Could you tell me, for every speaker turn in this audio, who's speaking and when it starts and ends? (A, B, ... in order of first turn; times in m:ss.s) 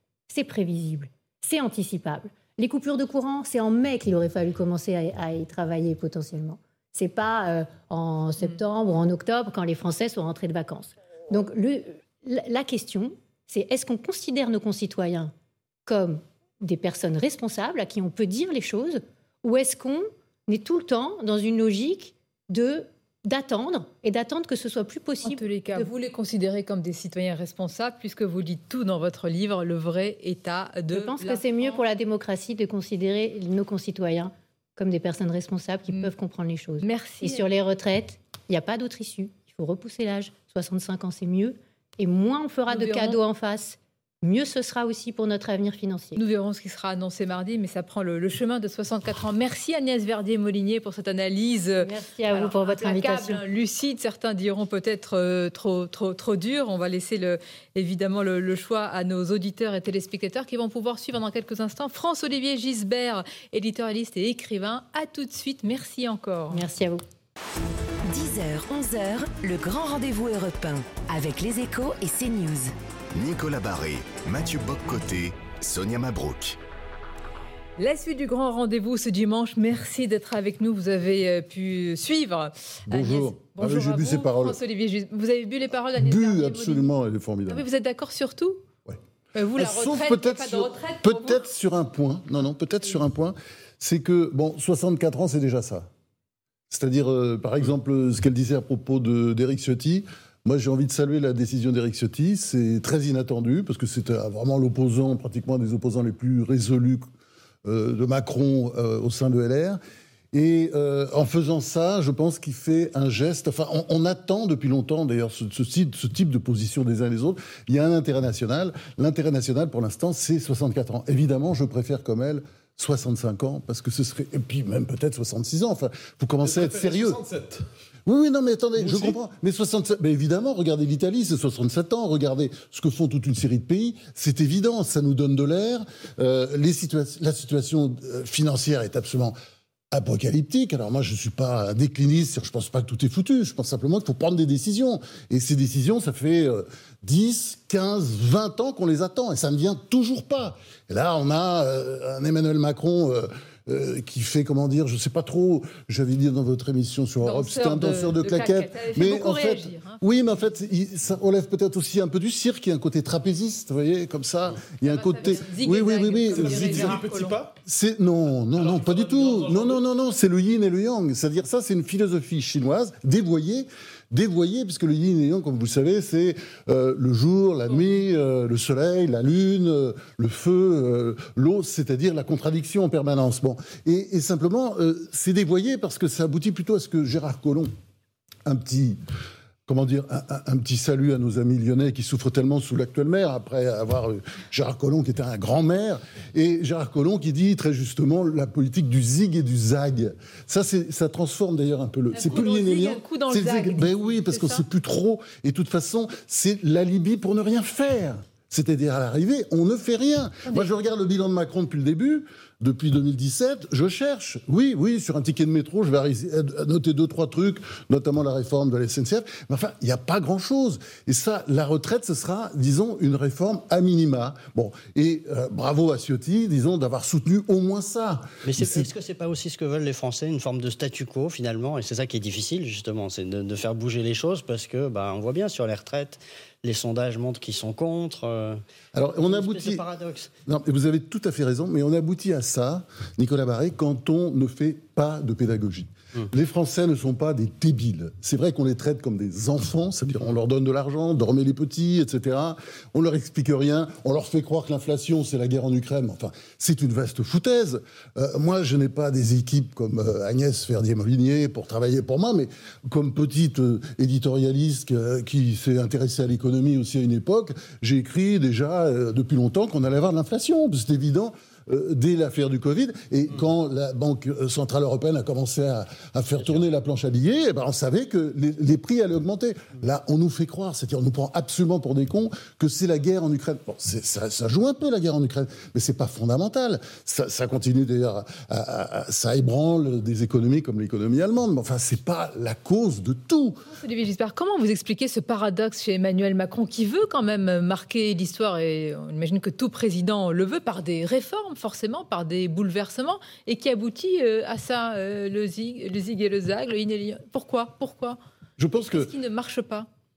0:00.3-0:15.3 A
0:15.9-0:25.9 A
0:25.2-0:31.8 B
0:30.9-0:46.2 A
0:36.8-0:37.4 B
0:42.7-0:43.2 B
0:46.2-1:06.6 B
0:51.8-0:53.4 A
1:06.5-1:07.0 A
1:08.0-1:12.7 C
1:13.1-1:16.6 D
1:17.8-1:26.9 B
1:22.9-1:24.6 E
1:26.0-1:27.7 E
1:27.5-1:28.6 B
1:29.4-1:31.5 B
1:29.6-1:35.9 E
1:36.7-1:47.0 E
1:47.6-1:49.8 E
1:50.3-2:07.2 E
2:06.4-2:07.6 F
2:08.1-2:19.4 E
2:08.8-2:09.2 F
2:19.9-2:47.0 E
2:37.2-2:40.6 B
2:44.8-2:47.4 B
2:46.4-2:47.6 F
2:47.6-3:07.7 E
2:48.6-2:49.8 F
2:57.7-2:58.0 B
3:08.5-3:09.0 E
3:09.7-3:48.9 E
3:22.1-3:24.6 B
3:48.4-3:58.6 G
3:59.0-3:59.8 E
3:59.2-4:00.3 G
4:00.5-4:53.6 E
4:53.7-5:08.2 B
5:08.6-5:09.1 E
5:08.7-5:09.9 B